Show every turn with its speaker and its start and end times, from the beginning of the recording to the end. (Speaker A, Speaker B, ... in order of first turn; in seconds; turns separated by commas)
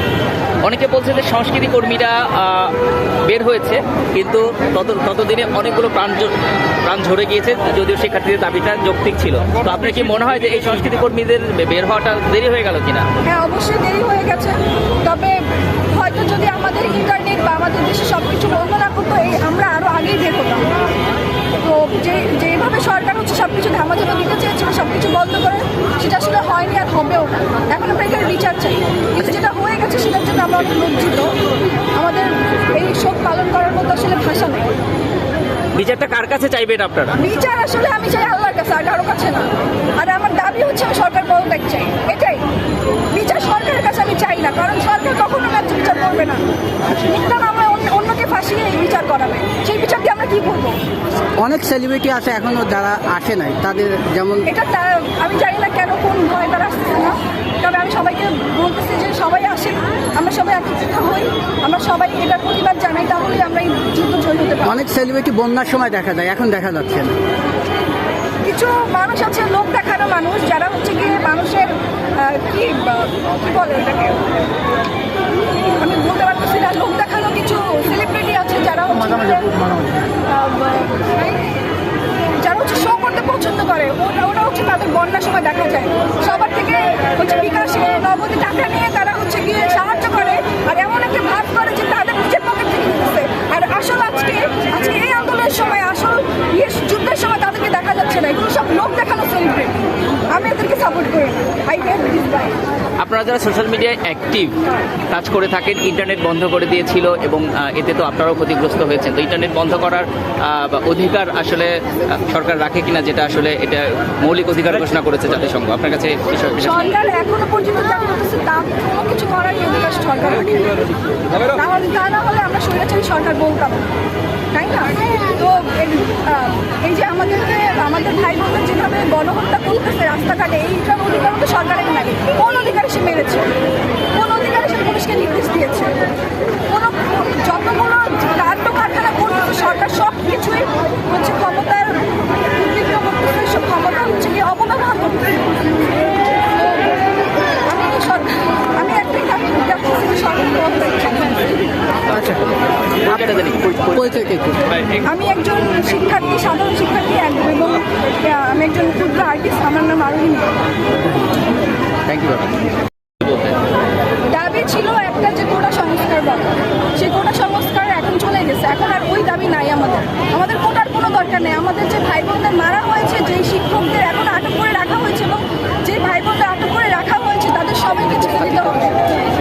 Speaker A: 0.6-2.7, Speaker A: 3.3-13.1, Speaker B: 13.2-20.7, Speaker B: 21.6-31.3, Speaker B: 31.9-34.7, Speaker A: 35.8-37.2, Speaker B: 37.2-42.4, Speaker B: 43.1-50.8, Speaker C: 51.4-54.5, Speaker B: 54.5-64.8, Speaker C: 64.7-67.1, Speaker B: 68.5-74.3, Speaker B: 75.7-79.8, Speaker B: 80.3-81.3, Speaker B: 82.4-102.5, Speaker A: 103.0-104.6, Speaker A: 105.1-116.9, Speaker B: 116.6-120.8, Speaker B: 121.5-123.8, Speaker B: 124.5-133.5, Speaker B: 134.2-135.9, Speaker B: 136.7-145.4, Speaker B: 146.6-147.0, Speaker B: 147.7-151.6, Speaker C: 152.1-152.4, Speaker A: 153.1-154.2, Speaker C: 153.1-154.6, Speaker B: 155.0-160.6, Speaker A: 162.1-162.5, Speaker A: 163.2-163.6, Speaker B: 164.3-179.0